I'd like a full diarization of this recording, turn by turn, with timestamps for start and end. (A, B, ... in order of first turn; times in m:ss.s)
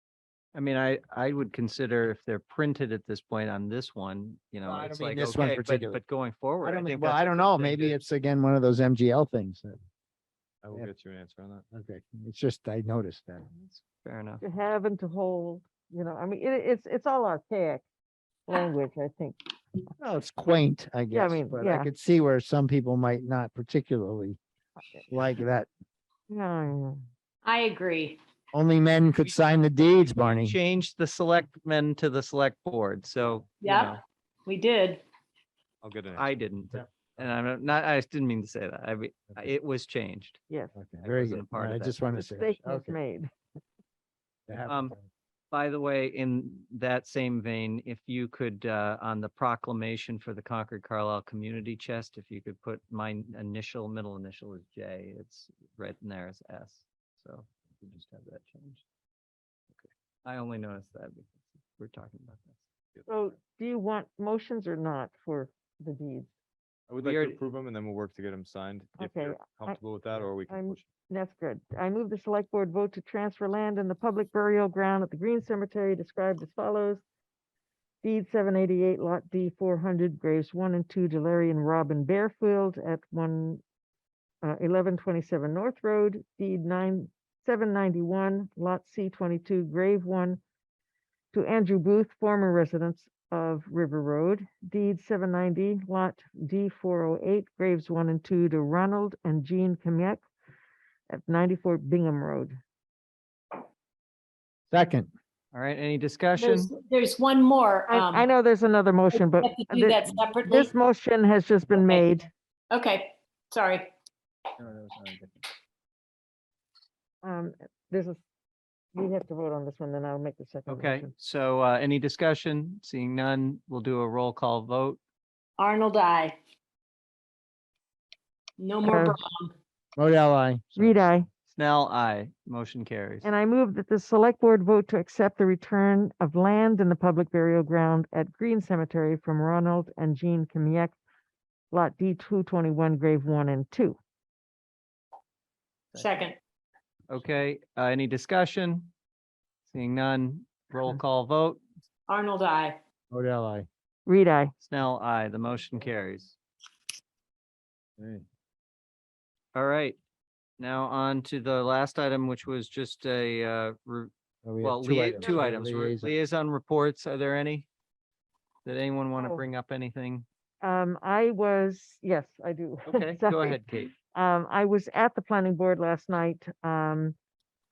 0:00.5-0:08.0 A
0:04.6-0:06.0 B
0:06.6-0:09.8 B
0:10.6-0:11.6 C
0:11.7-0:13.5 B
0:13.6-0:14.4 A
0:14.4-0:17.8 D
0:18.5-0:19.4 D
0:20.0-0:24.4 B
0:21.1-0:21.9 D
0:25.1-0:25.7 B
0:26.3-0:27.0 D
0:27.4-0:28.2 E
0:28.5-0:30.6 B
0:30.4-0:34.0 A
0:33.6-0:33.9 E
0:34.5-0:35.0 E
0:35.8-0:36.3 C
0:36.2-0:40.4 A
0:40.8-0:43.0 B
0:41.0-0:42.0 A
0:42.2-0:43.3 D
0:44.5-0:45.1 B
0:44.7-0:45.0 A
0:45.5-0:58.8 A
0:59.8-1:02.6 A
1:03.1-1:06.3 D
1:06.9-1:10.9 C
1:07.0-1:07.4 A
1:09.0-1:09.8 D
1:10.5-1:17.0 D
1:18.0-1:23.6 D
1:24.4-1:30.4 D
1:31.3-1:40.2 D
1:41.1-1:42.6 D
1:44.7-1:45.1 B
1:45.5-1:46.7 A
1:46.4-1:48.3 E
1:47.9-1:52.3 D
1:49.4-1:50.7 E
1:52.7-1:53.9 E
1:57.2-1:58.2 D
1:58.9-2:01.1 D
2:00.7-2:05.0 A
2:05.6-2:06.4 E
2:08.6-2:09.5 E
2:08.8-2:09.2 D
2:10.0-2:11.1 B
2:10.8-2:11.3 D
2:11.5-2:13.3 A
2:13.2-2:21.0 D
2:21.7-2:24.0 D
2:26.0-2:26.4 E
2:27.1-2:28.9 A
2:29.7-2:31.6 A
2:32.1-2:32.8 E
2:33.1-2:33.7 B
2:34.1-2:34.5 D
2:34.6-2:36.4 A
2:38.0-2:38.2 B
2:39.5-2:40.0 A
2:40.6-2:47.7 A
2:44.4-2:46.1 B
2:48.6-2:50.2 A
2:49.2-2:49.4 D
2:50.6-2:57.2 D
2:52.9-2:53.9 A